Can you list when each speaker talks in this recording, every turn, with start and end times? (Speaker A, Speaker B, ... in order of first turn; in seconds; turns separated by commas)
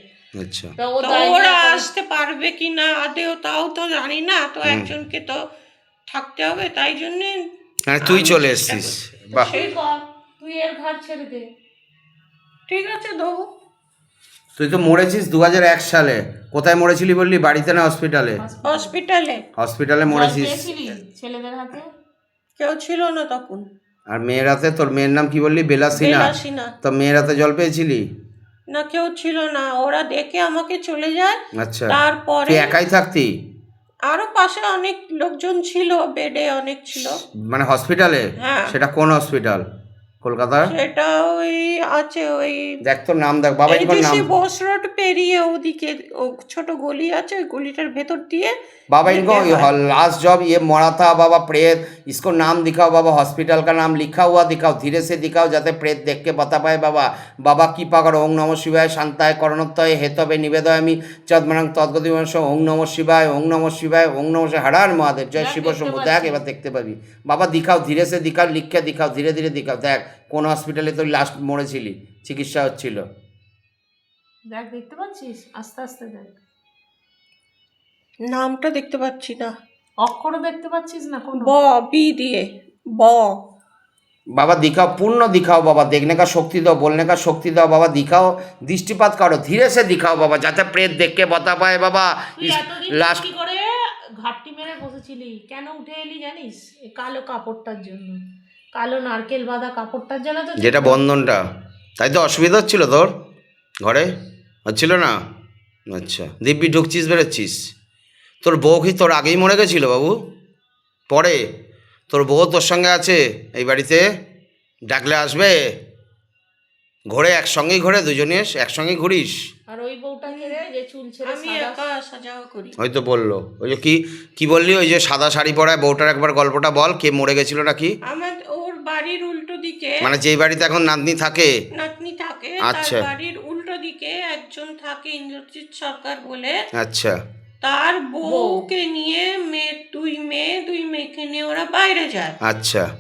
Speaker A: 0.4-0.8, Speaker B: 0.8-1.9, Speaker C: 1.0-5.4, Speaker C: 6.1-7.4, Speaker A: 7.9-9.5, Speaker C: 8.1-9.8, Speaker B: 9.4-11.5, Speaker C: 12.7-13.5, Speaker A: 14.6-18.4, Speaker B: 18.4-18.9, Speaker C: 18.6-19.4, Speaker A: 19.6-20.7, Speaker B: 20.1-21.9, Speaker C: 22.6-23.6, Speaker A: 24.1-28.0, Speaker C: 26.0-26.7, Speaker C: 28.7-31.4, Speaker A: 31.6-31.9, Speaker C: 31.9-32.8, Speaker A: 32.5-33.3, Speaker C: 34.1-37.2, Speaker A: 37.5-39.6, Speaker C: 38.4-38.8, Speaker A: 40.2-40.7, Speaker C: 40.7-42.8, Speaker A: 42.8-44.3, Speaker C: 43.7-48.5, Speaker A: 48.9-73.0, Speaker C: 49.0-49.7, Speaker B: 65.3-66.4, Speaker B: 74.5-76.4, Speaker C: 78.3-79.5, Speaker B: 80.0-81.5, Speaker C: 81.4-82.4, Speaker C: 83.0-83.3, Speaker A: 84.3-93.3, Speaker B: 92.4-93.6, Speaker B: 94.2-98.2, Speaker B: 98.7-101.0, Speaker A: 100.6-101.4, Speaker A: 102.0-103.1, Speaker A: 103.8-104.1, Speaker A: 104.7-105.2, Speaker A: 105.9-107.6, Speaker A: 108.4-110.1, Speaker A: 111.1-111.4, Speaker A: 112.1-114.0, Speaker A: 114.9-115.5, Speaker A: 117.1-119.4, Speaker B: 119.7-121.8, Speaker C: 120.3-120.7, Speaker C: 121.2-122.8, Speaker A: 122.8-128.0, Speaker C: 128.1-130.1, Speaker A: 130.0-131.5, Speaker C: 131.8-136.6, Speaker A: 132.6-133.1, Speaker A: 136.8-137.2, Speaker C: 137.6-142.4, Speaker B: 138.2-138.7, Speaker A: 142.4-142.9